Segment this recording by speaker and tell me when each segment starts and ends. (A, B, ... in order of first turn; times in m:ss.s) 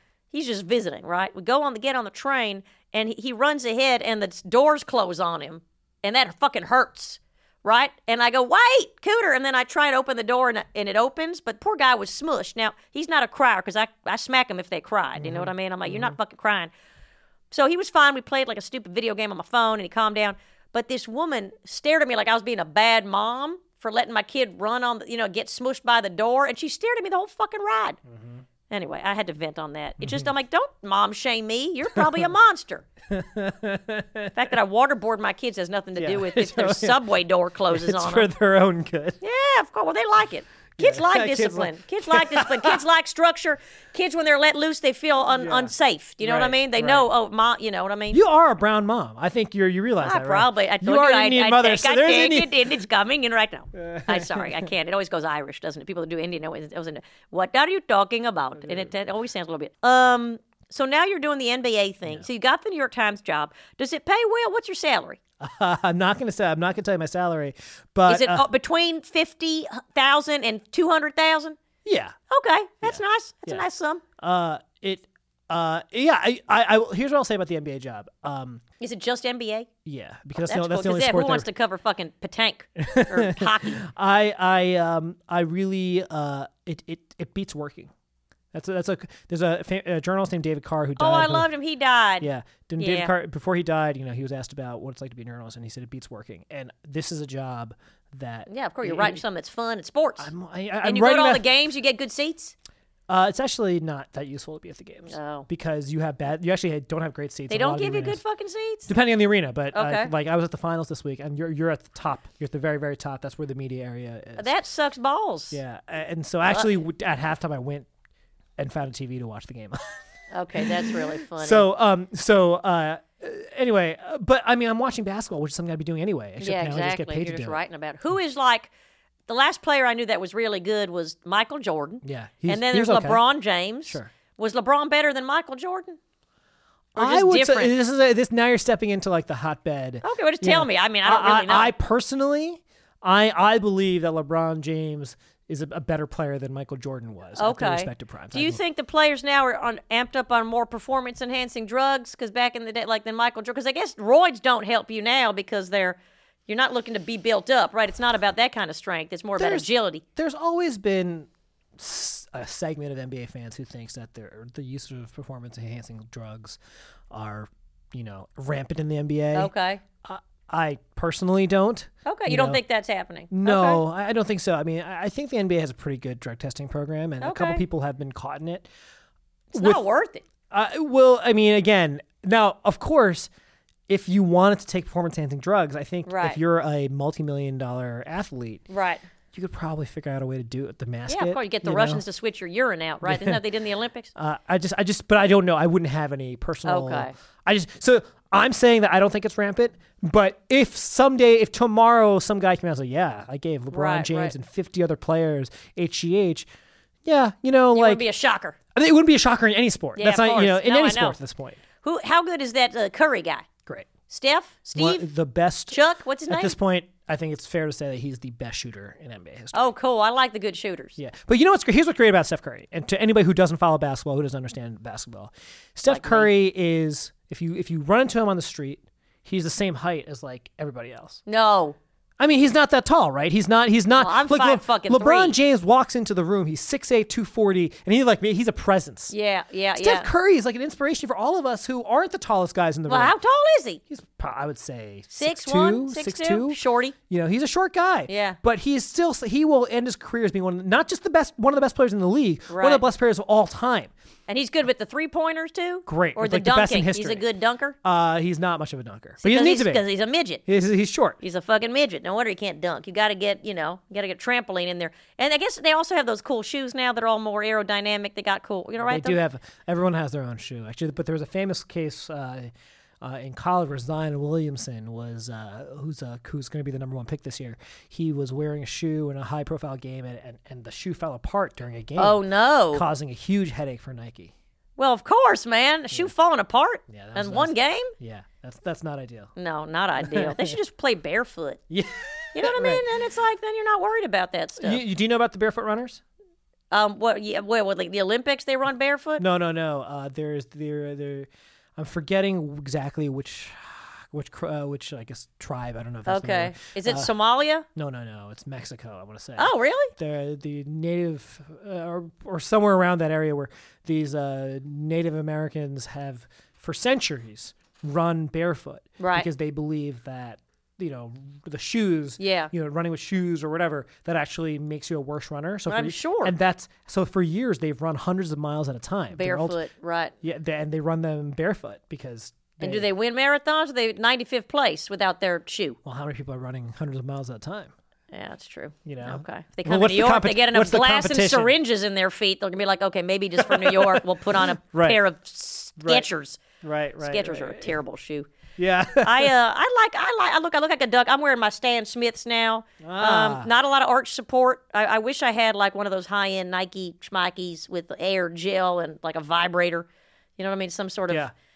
0:00.3-0:16.7 A
0:15.2-0:16.2 B
0:17.5-0:28.0 A
0:28.1-0:28.4 B
0:28.7-0:32.9 A
0:30.0-0:30.3 B
0:31.9-0:32.3 B
0:33.1-0:34.4 B
0:34.3-0:38.3 A
0:36.0-0:37.0 B
0:37.7-0:39.2 B
0:39.2-0:48.2 A
0:40.8-0:42.8 B
0:45.3-0:47.1 B
0:48.1-0:52.6 B
0:50.0-1:05.2 A
0:53.8-0:54.7 B
1:05.4-1:08.4 B
1:08.1-1:11.6 A
1:11.8-1:12.2 B
1:12.3-1:14.0 A
1:12.8-1:13.6 B
1:14.2-1:18.6 B
1:18.8-1:19.7 A
1:19.8-1:21.5 B
1:20.4-1:23.8 A
1:22.8-1:27.9 B
1:28.5-1:31.5 B
1:31.0-1:32.3 A
1:32.2-1:39.2 B
1:32.8-1:33.1 A
1:38.5-1:42.5 A
1:40.2-1:41.4 B
1:43.1-1:48.2 B
1:45.1-1:45.5 A
1:47.5-1:48.9 A
1:48.9-1:54.5 B
1:49.7-1:50.1 A
1:54.4-1:55.6 A
1:55.5-1:57.9 B
1:58.6-2:00.0 B
2:00.3-2:01.6 A
2:00.6-2:07.6 B
2:06.4-2:08.7 A
2:09.3-2:16.0 A
2:12.0-2:13.2 B
2:17.0-2:28.6 B
2:17.0-2:17.8 A
2:20.0-2:21.7 A
2:27.4-2:40.0 A
2:39.4-2:46.6 B
2:47.1-2:49.5 B
2:49.3-2:49.8 A
2:50.0-2:52.6 B
2:52.0-2:53.8 A
2:53.3-2:58.7 B
2:57.2-2:57.6 A
2:59.5-3:00.2 A
2:59.5-2:59.8 B
3:00.5-3:03.3 B
3:03.9-3:08.7 B
3:06.0-3:06.4 A
3:08.7-3:09.0 A
3:09.3-3:12.0 B
3:11.1-3:14.1 A
3:13.0-3:13.4 B
3:14.2-3:26.5 B
3:16.6-3:17.1 A
3:23.7-3:24.3 A
3:27.0-3:28.1 B
3:27.7-3:28.6 A
3:28.8-3:31.6 B
3:30.0-3:31.2 A
3:31.8-3:33.5 A
3:33.7-3:33.9 B
3:34.1-3:35.1 A
3:34.8-3:39.6 B
3:35.7-3:36.6 A
3:39.5-3:41.0 A
3:41.0-3:51.2 B
3:45.9-3:46.3 A
3:51.3-3:51.8 A
3:52.2-3:59.2 B
3:54.0-3:55.4 A
3:59.1-4:00.1 A
3:59.8-4:03.2 B
4:02.9-4:03.8 A
4:03.9-4:13.9 B
4:05.1-4:06.9 A
4:08.1-4:08.4 A
4:12.5-4:12.8 A
4:14.3-4:17.8 A
4:15.9-4:17.2 B
4:17.8-4:19.8 B
4:19.2-4:20.4 A
4:20.5-4:21.2 B
4:21.2-4:29.2 A
4:28.8-4:44.3 B
4:42.0-4:42.8 A
4:44.8-4:47.9 A
4:46.9-4:49.3 B
4:49.4-4:51.6 A
4:50.0-4:50.6 B
4:51.7-4:52.8 B
4:52.3-4:54.8 A
4:54.6-4:56.0 B
4:56.7-4:59.2 A
4:59.2-5:07.1 B
5:06.1-5:07.6 A
5:07.8-5:29.6 B
5:09.4-5:09.9 A
5:19.0-5:19.3 A
5:22.2-5:22.5 A
5:25.7-5:26.3 A
5:29.1-5:30.1 A
5:30.2-5:32.9 B
5:32.6-5:35.8 A
5:35.8-5:37.7 B
5:38.1-5:46.4 A
5:38.8-5:41.6 B
5:43.4-5:44.0 B
5:44.6-5:45.0 B
5:45.8-5:46.1 B
5:46.6-5:47.7 B
5:47.0-5:48.3 A
5:48.6-5:49.3 B
5:49.0-5:59.9 A
5:52.8-5:53.5 B
6:00.4-6:01.3 A